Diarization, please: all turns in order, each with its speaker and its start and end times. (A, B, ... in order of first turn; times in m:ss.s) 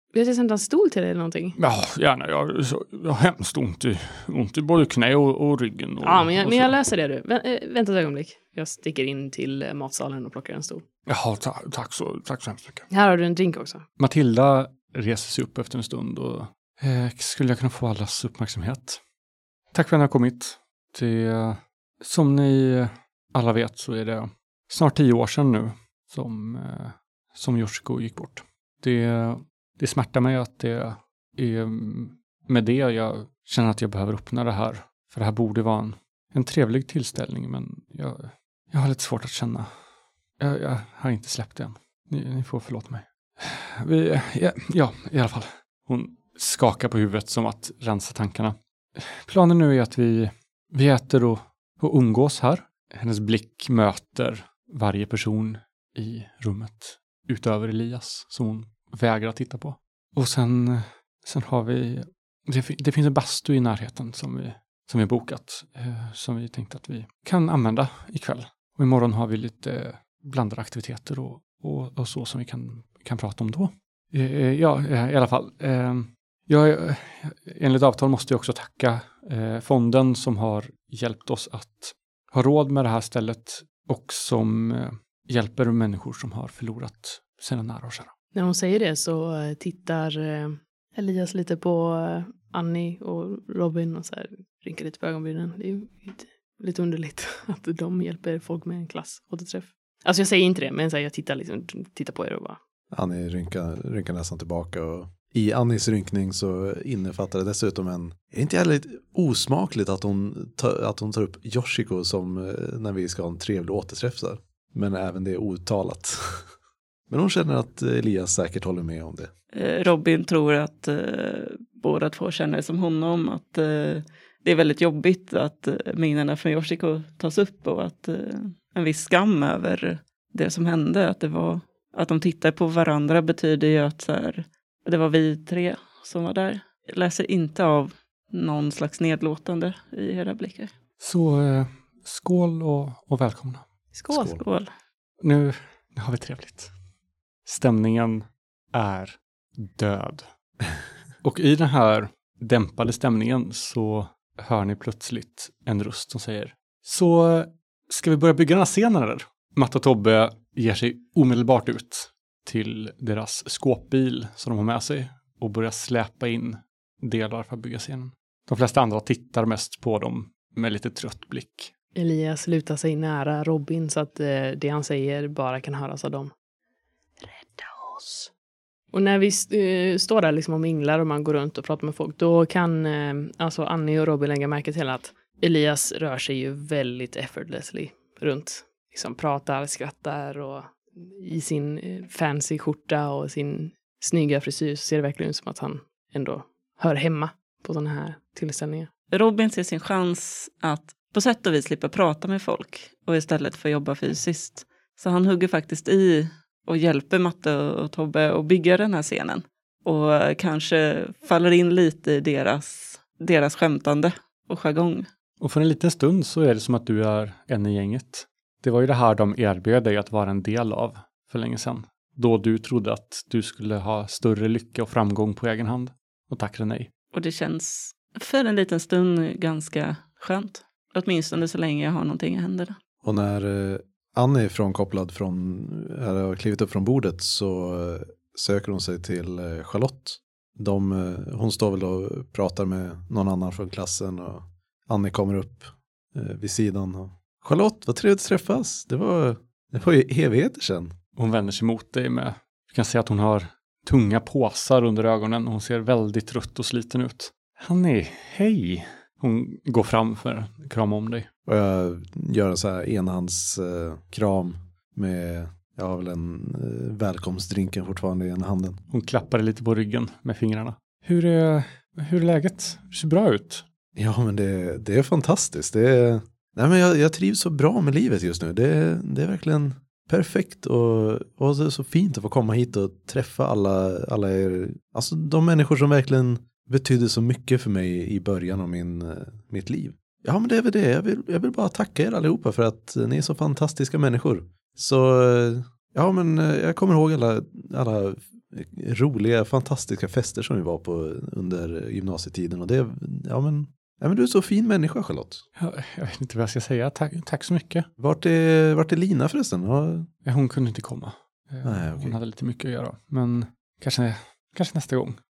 0:00.1-0:01.6 A
0:01.6-0:06.7 B
0:06.0-0:10.8 A
0:11.1-0:12.9 B
0:12.9-0:13.8 A
0:14.0-0:19.0 B
0:19.7-0:39.7 B
0:40.4-1:28.1 B
1:28.3-1:42.6 A
1:42.9-1:56.5 C
1:57.1-1:59.3 C
1:59.5-2:20.7 D
2:21.0-2:23.6 B
2:23.9-2:24.4 A
2:24.1-2:24.4 C
2:24.4-2:24.7 D
2:25.2-2:26.7 B
2:27.4-2:30.3 B
2:31.2-2:51.7 B
2:51.9-2:56.3 A
2:57.2-2:58.3 A
2:58.9-3:18.9 A
3:19.1-3:35.1 D
3:35.4-3:46.9 B
3:47.1-3:52.8 D
3:53.0-4:10.9 C
4:11.2-4:21.3 B
4:21.5-4:28.8 C
4:28.9-4:33.6 B
4:34.0-5:05.4 C
5:05.6-5:07.9 B
5:08.0-5:10.1 C
5:10.2-5:15.2 B
5:11.6-5:12.1 C